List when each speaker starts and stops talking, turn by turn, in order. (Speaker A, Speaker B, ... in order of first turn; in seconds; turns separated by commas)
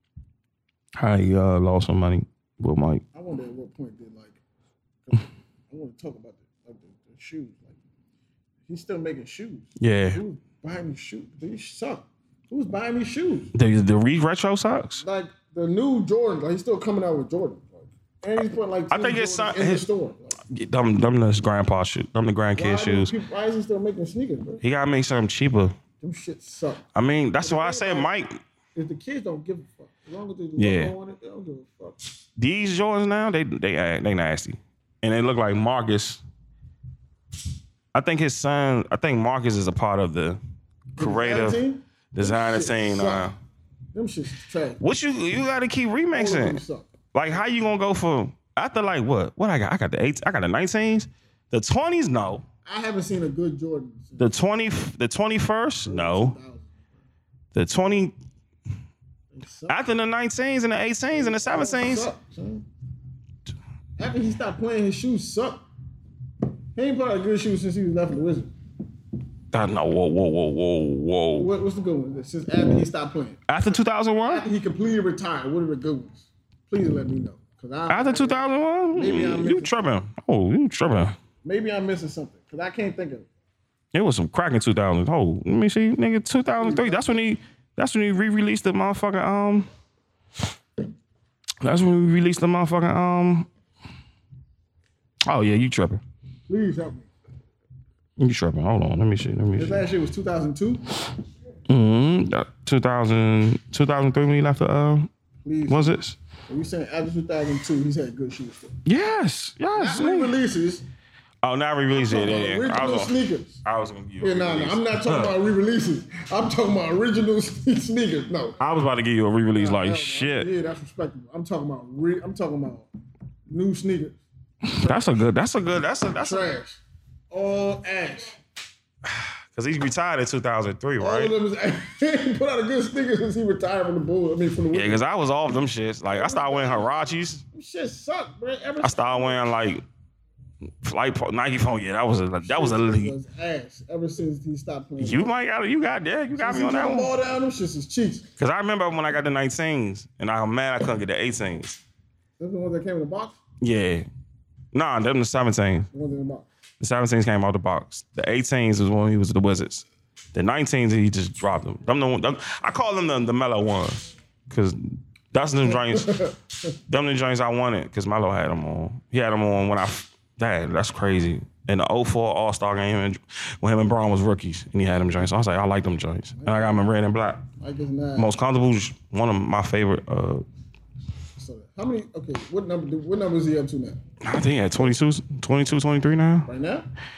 Speaker A: 0.9-3.0, Speaker B: 3.1-4.4, Speaker B: 5.1-7.8, Speaker B: 8.7-13.5, Speaker A: 9.8-10.2, Speaker A: 13.6-15.0, Speaker B: 15.0-20.4, Speaker A: 18.9-19.9, Speaker A: 20.5-23.1, Speaker B: 22.6-24.6, Speaker A: 24.6-25.8, Speaker B: 26.0-26.9, Speaker A: 26.9-28.4, Speaker B: 27.4-28.1, Speaker B: 28.8-32.0, Speaker A: 30.6-30.9, Speaker A: 32.4-36.2, Speaker A: 37.9-40.4, Speaker B: 41.0-43.3, Speaker A: 41.0-41.6, Speaker A: 42.1-43.4, Speaker B: 43.9-44.8, Speaker A: 44.8-46.6, Speaker B: 46.1-46.9, Speaker A: 47.1-52.5, Speaker B: 52.6-54.3, Speaker A: 54.2-56.4, Speaker B: 55.9-56.8, Speaker A: 57.5-58.1, Speaker B: 59.3-59.8, Speaker A: 59.7-62.1, Speaker B: 61.1-62.6, Speaker B: 64.0-65.7, Speaker B: 66.8-68.5, Speaker A: 69.5-71.5, Speaker B: 71.4-73.4, Speaker A: 73.5-74.5, Speaker B: 74.3-79.8, Speaker A: 77.9-81.2, Speaker B: 81.4-83.3, Speaker A: 83.9-89.7, Speaker B: 86.6-87.3, Speaker A: 91.6-93.5, Speaker A: 95.3-96.0, Speaker B: 96.5-97.1, Speaker A: 98.2-99.8, Speaker B: 99.6-100.8, Speaker A: 101.7-105.1, Speaker B: 105.4-108.8, Speaker A: 105.7-106.2, Speaker A: 108.9-110.3, Speaker B: 109.8-110.8, Speaker A: 111.4-115.4, Speaker B: 111.9-113.6, Speaker B: 114.2-118.6, Speaker A: 118.6-120.5, Speaker B: 119.5-122.9, Speaker B: 123.5-125.2, Speaker A: 124.7-126.5, Speaker B: 126.2-128.4, Speaker A: 129.1-131.3, Speaker B: 131.0-135.0, Speaker A: 134.7-137.4, Speaker B: 136.1-136.9, Speaker B: 137.5-139.4, Speaker A: 138.8-139.8, Speaker A: 140.8-143.1, Speaker B: 142.4-145.3, Speaker A: 145.0-147.1, Speaker B: 146.4-148.3, Speaker A: 148.4-151.8, Speaker B: 152.4-153.4, Speaker A: 153.6-154.1, Speaker A: 154.7-155.9, Speaker B: 155.9-156.5, Speaker A: 156.8-166.2, Speaker B: 165.6-166.4, Speaker A: 166.9-177.4, Speaker B: 176.3-176.9, Speaker B: 177.6-178.3, Speaker A: 178.2-180.4, Speaker B: 181.4-184.0, Speaker A: 184.2-186.5, Speaker B: 186.5-186.9